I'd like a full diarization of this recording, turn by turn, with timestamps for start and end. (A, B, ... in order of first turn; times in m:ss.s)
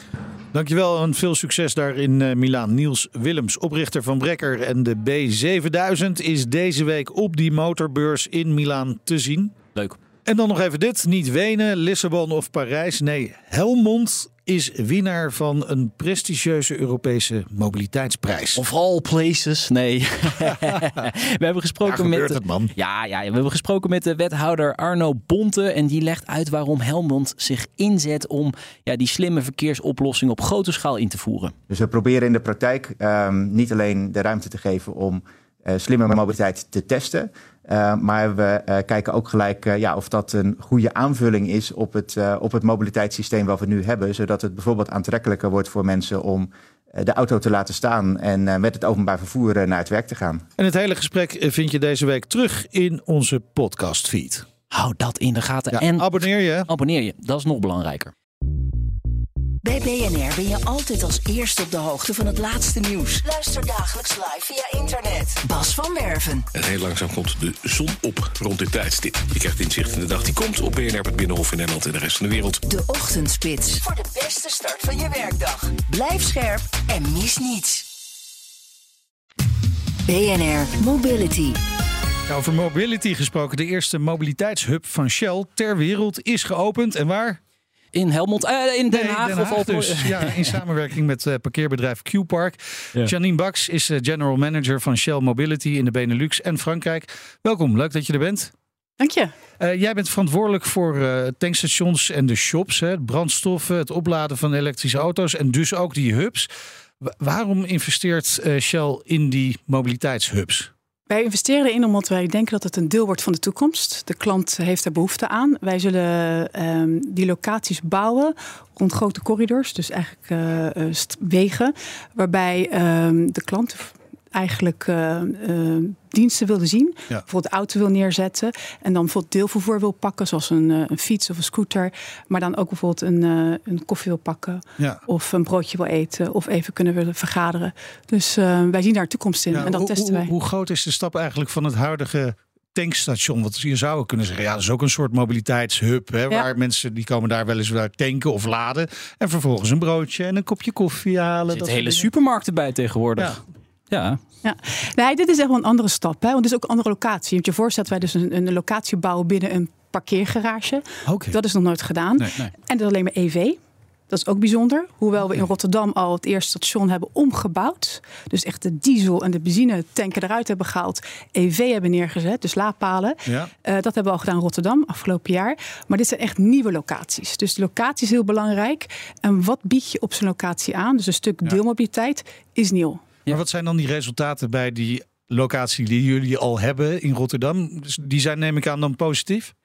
0:00.5-0:09.6 A
0:10.2-0:18.6 A
0:18.6-0:31.6 B
0:21.8-0:22.7 A
0:31.7-0:50.4 C
0:50.6-0:54.5 A
0:54.7-0:56.1 B
0:55.7-0:56.7 A
0:56.7-0:58.1 B
0:59.6-1:06.5 D
1:06.5-1:12.6 E
1:12.7-1:17.9 D
1:20.1-1:21.6 D
1:22.3-1:27.4 A
1:27.9-1:30.6 B
1:28.9-1:38.5 A
1:39.0-1:39.3 F
1:39.6-1:46.5 A
1:47.0-1:50.7 A
1:51.1-2:20.3 F
2:19.5-2:32.1 A
2:31.5-2:34.2 B
2:34.4-2:43.6 F
2:41.1-2:41.4 A
2:44.1-3:03.0 F
3:03.3-3:09.5 A